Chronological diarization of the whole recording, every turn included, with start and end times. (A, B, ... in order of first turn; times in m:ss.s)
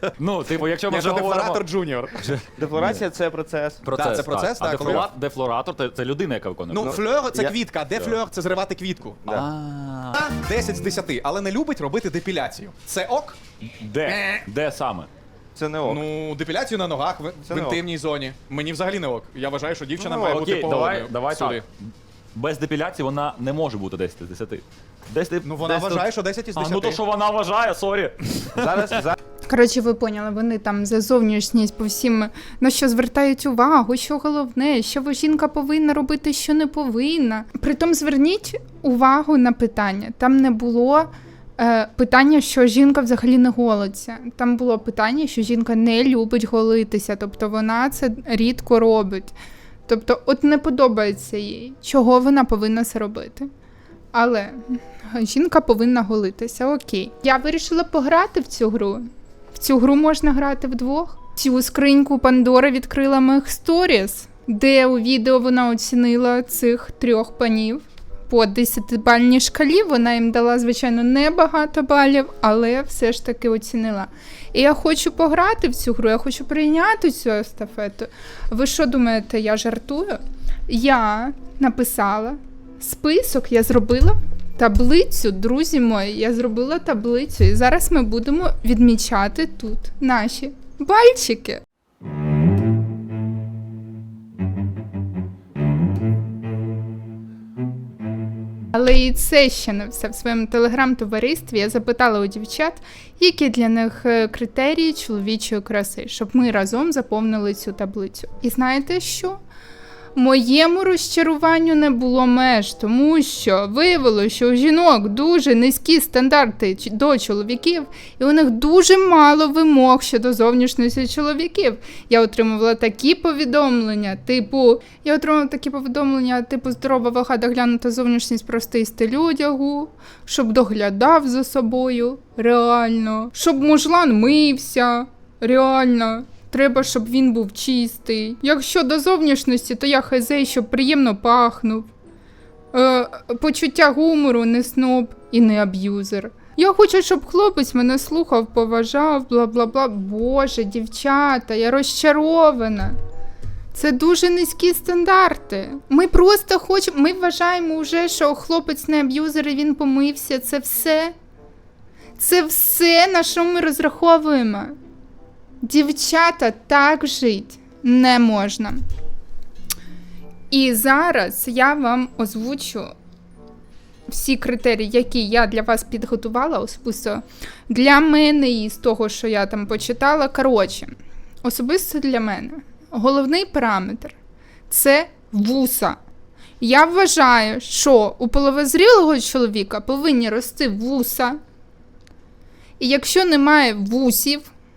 0:00.2-0:01.6 A
0:00.6-0:02.3 B
0:02.2-0:03.0 A
0:02.6-0:03.8 C
0:03.8-0:07.0 A
0:04.0-0:05.1 B
0:06.7-0:09.2 B
0:06.8-0:07.6 C
0:09.3-0:10.2 A
0:10.2-0:13.4 B
0:13.8-0:15.1 A
0:14.0-0:14.4 B
0:15.6-0:16.0 C
0:15.9-0:21.6 B
0:17.5-0:17.8 C
0:20.0-0:20.5 C
0:20.3-0:21.7 A
0:22.4-0:29.0 A
0:25.4-0:27.0 B
0:28.6-0:29.1 C
0:29.5-0:49.3 D
0:49.9-0:53.5 D
0:54.1-1:31.6 D
1:38.7-1:49.4 D
1:50.2-2:21.9 D
2:22.7-2:33.0 D
2:33.7-2:41.1 D
2:42.2-2:44.8 D
2:45.6-2:48.8 D
2:50.5-2:52.9 D
2:54.1-3:00.9 D
3:01.4-3:04.2 D
3:04.7-3:06.0 D
3:06.6-3:11.4 D
3:12.8-3:14.5 D